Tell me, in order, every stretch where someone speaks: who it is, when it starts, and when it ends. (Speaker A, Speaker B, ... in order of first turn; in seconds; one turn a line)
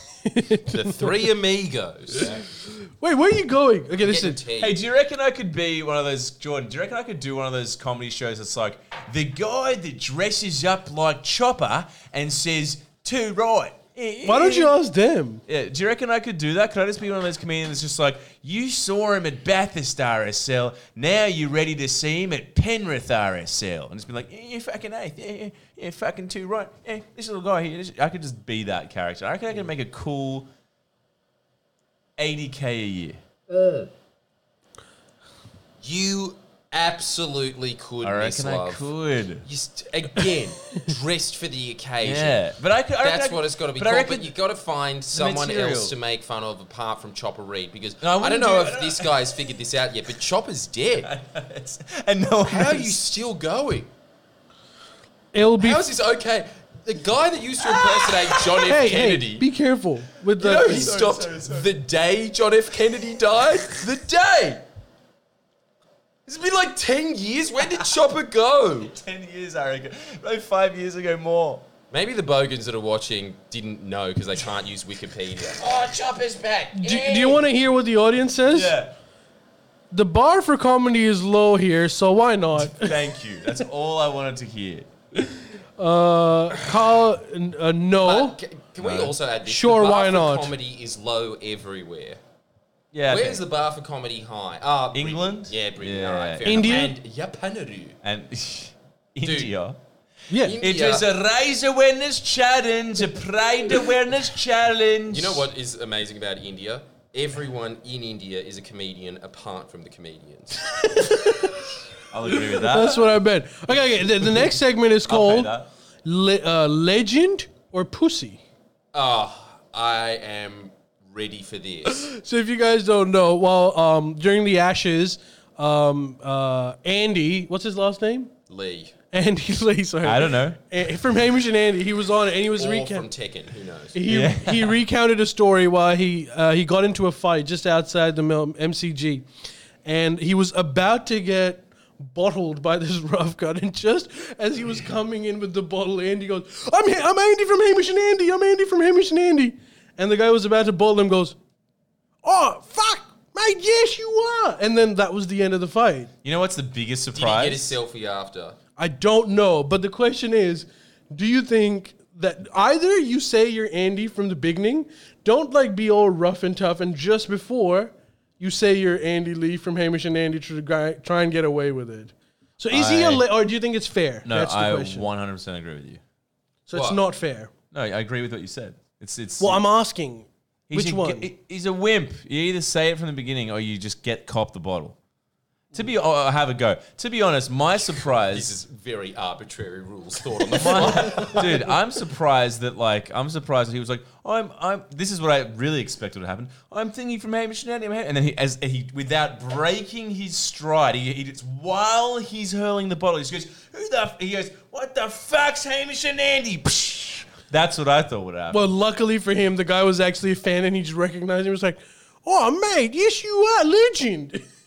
Speaker A: 0.2-1.1
Speaker B: 0.7-2.5
Speaker A: 2.6-4.4
Speaker B: 4.0-4.8
Speaker C: 4.6-14.8
Speaker A: 14.2-15.4
Speaker C: 15.5-30.5
Speaker C: 32.2-33.2
Speaker B: 33.5-33.9
Speaker B: 35.8-38.9
Speaker C: 38.0-39.5
Speaker B: 39.5-42.4
Speaker C: 42.0-44.3
Speaker B: 43.0-51.1
Speaker C: 45.1-46.0
Speaker C: 48.0-49.3
Speaker C: 51.0-53.0
Speaker B: 52.5-53.9
Speaker A: 55.3-55.9
Speaker B: 55.6-59.5
Speaker C: 57.8-58.5
Speaker A: 58.6-61.0
Speaker B: 60.4-64.6
Speaker C: 60.5-61.7
Speaker B: 66.3-69.0
Speaker C: 68.8-71.7
Speaker B: 71.9-77.5
Speaker A: 76.7-78.8
Speaker C: 78.5-78.9
Speaker A: 79.9-82.9
Speaker C: 82.6-84.9
Speaker A: 85.8-88.4
Speaker B: 88.0-92.2
Speaker C: 88.8-89.2
Speaker A: 89.5-90.5
Speaker C: 92.9-93.4
Speaker B: 93.1-98.0
Speaker C: 94.9-96.9
Speaker A: 96.5-97.0
Speaker C: 98.0-99.8
Speaker B: 99.2-99.5
Speaker A: 100.3-100.6
Speaker B: 100.4-101.1
Speaker C: 100.6-105.5
Speaker B: 105.1-110.7
Speaker A: 110.7-111.7
Speaker C: 112.1-113.2
Speaker A: 112.2-115.5
Speaker C: 114.0-114.5
Speaker C: 115.1-115.7
Speaker A: 116.0-118.4
Speaker B: 118.9-122.1
Speaker A: 121.9-128.3
Speaker B: 128.5-128.9
Speaker A: 129.1-133.1
Speaker C: 130.0-130.6
Speaker B: 132.6-134.0
Speaker A: 133.9-139.2
Speaker C: 134.1-134.8
Speaker A: 139.8-151.4
Speaker A: 152.2-156.1
Speaker C: 156.2-157.8
Speaker B: 157.1-158.6
Speaker A: 158.8-175.1
Speaker C: 172.7-173.2
Speaker C: 174.2-176.0
Speaker A: 176.7-177.5
Speaker B: 176.7-177.0
Speaker C: 177.7-179.6
Speaker A: 179.4-181.3
Speaker C: 180.7-185.0
Speaker C: 185.7-188.5
Speaker B: 188.0-191.7
Speaker C: 190.5-208.7
Speaker A: 208.5-214.4